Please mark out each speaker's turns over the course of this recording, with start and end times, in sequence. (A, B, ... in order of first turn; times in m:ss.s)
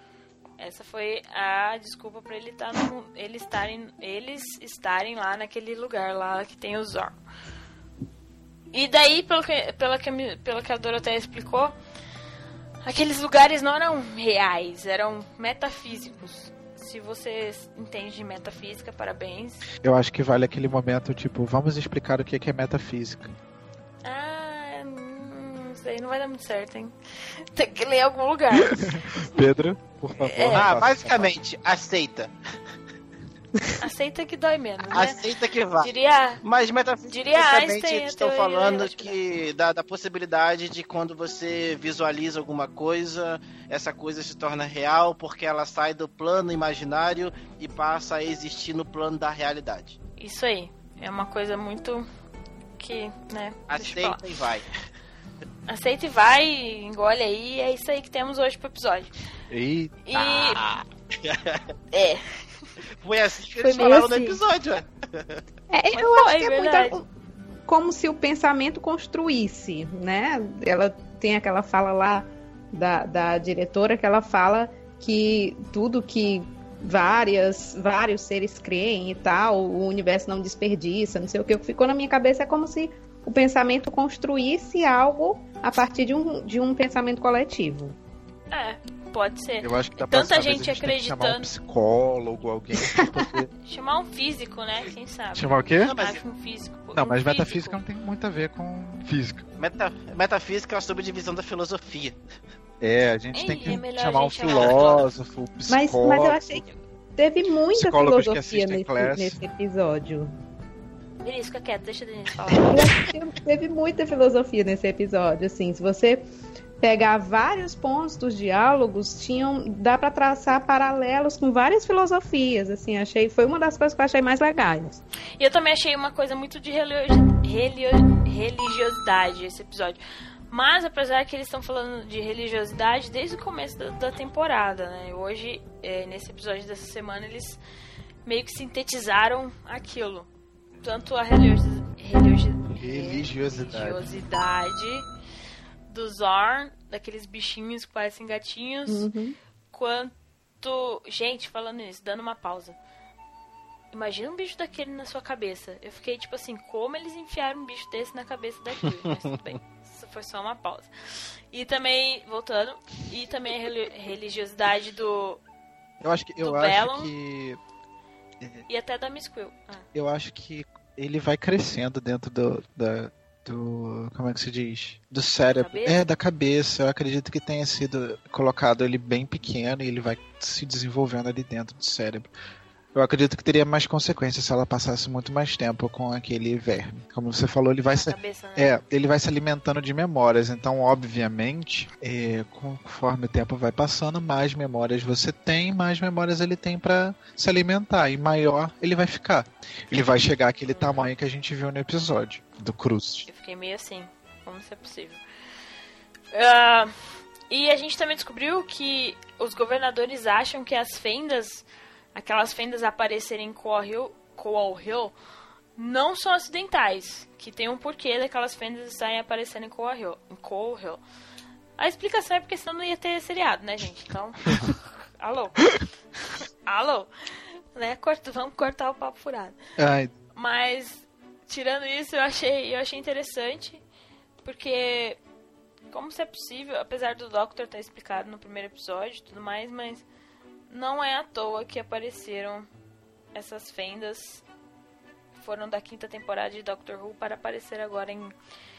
0:00.6-0:07.2 A
0:08.7-0:11.8 A
0:12.8-0:19.6 A
0:19.8-0:23.3 B
0:24.0-0:29.1 A
0:28.6-0:31.3 B
0:30.2-0:30.7 A
0:30.4-0:32.3 C
0:33.8-0:35.2 A
0:34.9-0:35.9 C
0:35.8-0:36.4 A
0:36.4-0:50.0 C
0:37.0-0:39.2 A
0:50.2-0:52.1 A
0:52.8-0:54.4 A
0:53.7-0:54.6 C
0:55.7-0:59.1 A
0:59.5-1:00.0 B
1:00.0-1:00.6 A
1:00.1-1:01.6 C
1:01.9-1:02.6 A
1:03.0-1:05.4 C
1:03.6-1:04.3 A
1:05.7-1:07.1 D
1:05.9-1:07.0 A
1:07.7-1:28.0 D
1:28.5-1:31.5 A
1:29.6-1:33.5 B
1:32.8-1:33.3 D
1:33.6-1:37.8 A
1:35.3-1:35.9 B
1:35.8-1:36.2 C
1:36.9-1:39.4 B
1:39.6-1:42.2 C
1:42.8-1:46.6 B
1:43.3-1:45.1 A
1:44.5-1:45.0 C
1:45.7-1:50.3 D
1:47.7-1:49.4 B
1:51.2-1:52.8 A
1:52.6-1:56.2 D
1:56.8-2:05.0 D
2:05.4-2:17.6 A
2:18.2-2:20.3 A
2:20.8-2:25.0 A
2:22.8-2:24.0 B
2:25.9-2:29.1 A
2:28.9-2:29.4 D
2:29.7-2:32.8 A
2:33.9-2:45.4 A
2:46.0-2:47.6 B
2:46.4-2:47.1 A
2:48.7-2:49.8 A
2:49.9-3:02.3 B
2:55.5-2:56.0 A
3:02.9-3:23.3 B
3:07.9-3:08.7 A
3:20.7-3:21.0 A
3:23.3-3:25.2 A
3:26.3-3:26.9 A
3:27.5-3:35.1 A
3:35.8-3:41.0 A
3:41.8-3:45.7 A
3:46.4-3:49.6 A
3:49.8-3:50.1 B
3:50.3-3:53.8 A
3:54.4-3:55.2 A
3:55.9-4:00.0 A
4:00.7-4:02.7 A
4:03.3-4:04.4 A
4:05.4-4:08.3 A